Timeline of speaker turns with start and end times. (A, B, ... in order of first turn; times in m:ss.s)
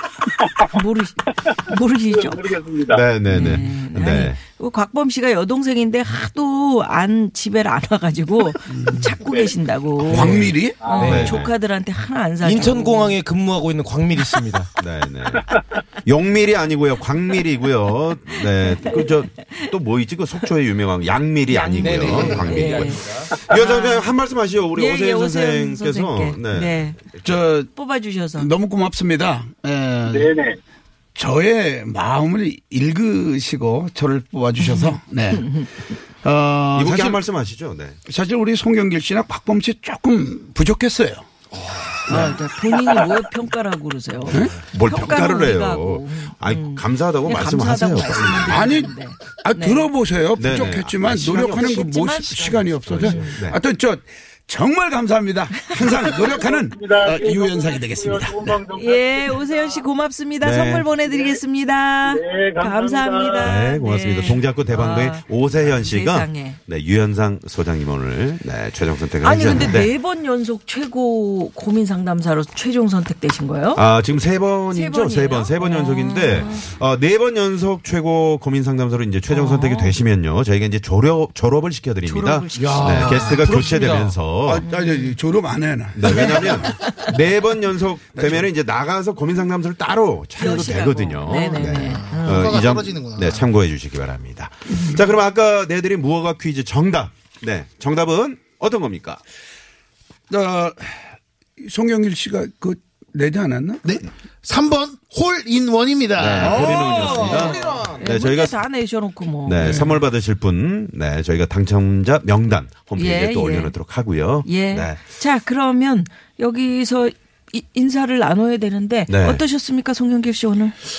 0:00.6-0:02.5 A
0:02.3-0:03.0 B
0:02.9-0:04.4 C
0:03.3-0:13.2 A
0:08.8-0:09.0 D
0:10.0-0:11.6 C
0:10.1-0:10.9 D
0:10.8-0:11.1 B
0:11.0-0:11.3 E
0:12.4-0:14.7 E
0:14.8-0:15.5 C
0:16.0-0:27.4 C
0:18.6-0:19.6 A
0:21.5-0:23.4 E
0:22.0-0:24.2 A
0:24.8-0:27.0 A
0:27.2-0:27.7 D
0:27.7-0:28.5 A
0:28.3-0:30.4 D
0:30.1-0:30.5 B
0:31.2-0:37.2 D
0:34.6-0:35.7 A
0:36.7-0:38.0 C
0:38.1-0:41.2 D
0:41.6-0:42.4 C
0:42.1-0:49.9 A
0:42.1-0:42.4 D
0:44.3-0:44.6 D
0:44.3-0:48.7 C
0:48.5-0:58.7 D
0:50.4-0:51.9 C
0:51.5-0:53.4 A
0:52.4-0:53.6 C
0:56.2-0:59.6 B
0:58.7-1:06.6 A
1:00.4-1:00.9 C
1:02.1-1:03.4 B
1:03.4-1:09.9 C
1:09.2-1:13.8 A
1:13.8-1:24.7 C
1:14.7-1:16.7 A
1:19.3-1:20.0 A
1:22.0-1:23.5 A
1:22.6-1:24.3 E
1:22.6-1:23.7 D
1:24.4-1:26.9 D
1:24.7-1:25.2 A
1:25.9-1:39.2 C
1:26.0-1:27.1 A
1:28.1-1:28.5 D
1:30.4-1:32.7 A
1:31.6-1:33.5 F
1:34.7-1:35.0 A
1:40.3-1:43.9 D
1:43.8-1:47.6 F
1:46.2-1:48.7 C
1:46.2-1:48.0 E
1:46.7-1:50.0 A
1:49.4-1:55.0 C
1:53.0-1:53.8 A
1:54.4-2:00.8 A
1:59.1-1:59.4 C